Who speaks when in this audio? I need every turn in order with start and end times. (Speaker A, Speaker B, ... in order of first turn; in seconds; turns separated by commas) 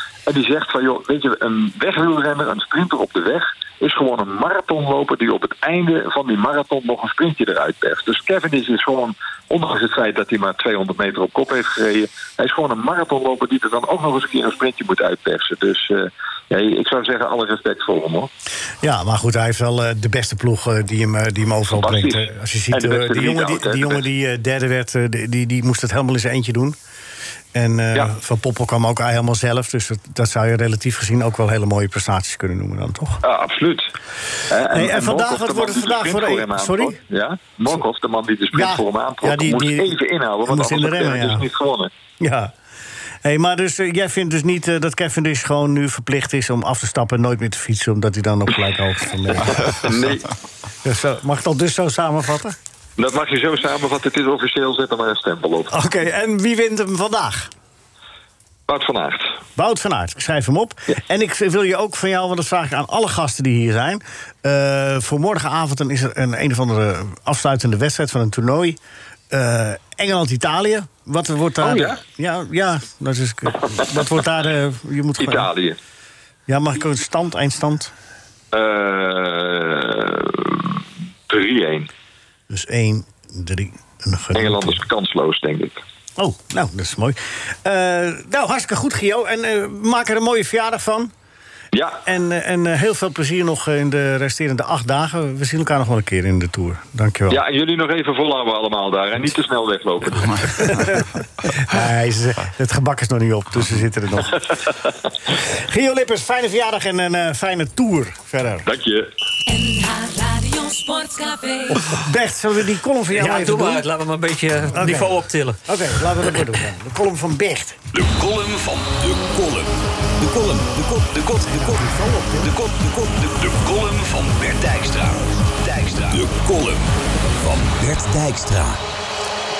Speaker A: 0.2-18.3, Speaker B: 18.8-26.8, Speaker A: 21.7-24.0, Speaker B: 27.5-33.2, Speaker A: 33.2-33.9, Speaker A: 34.5-41.9, Speaker B: 34.7-37.0, Speaker B: 38.5-41.4, Speaker B: 42.2-42.5, Speaker B: 43.2-50.0, Speaker A: 49.3-50.3, Speaker B: 50.8-52.5, Speaker A: 53.0-55.7, Speaker B: 55.7-57.5, Speaker A: 58.7-59.4, Speaker B: 59.6-68.8, Speaker B: 69.3-75.5, Speaker A: 71.6-72.0, Speaker A: 75.2-75.8, Speaker B: 76.5-77.9, Speaker A: 78.5-81.9, Speaker B: 82.5-84.8, Speaker A: 84.3-85.8, Speaker B: 86.2-91.1, Speaker A: 91.7-92.0, Speaker B: 92.0-97.4, Speaker A: 97.3-100.9, Speaker B: 100.6-104.5, Speaker B: 105.5-108.7, Speaker A: 108.6-109.1, Speaker C: 109.5-111.8, Speaker B: 111.7-113.8, Speaker D: 113.1-115.6, Speaker B: 114.7-117.8, Speaker E: 119.1-119.7, Speaker E: 120.2-121.3, Speaker B: 121.4-122.5, Speaker E: 122.8-123.0, Speaker E: 124.3-124.9, Speaker E: 126.1-126.8, Speaker E: 127.4-128.7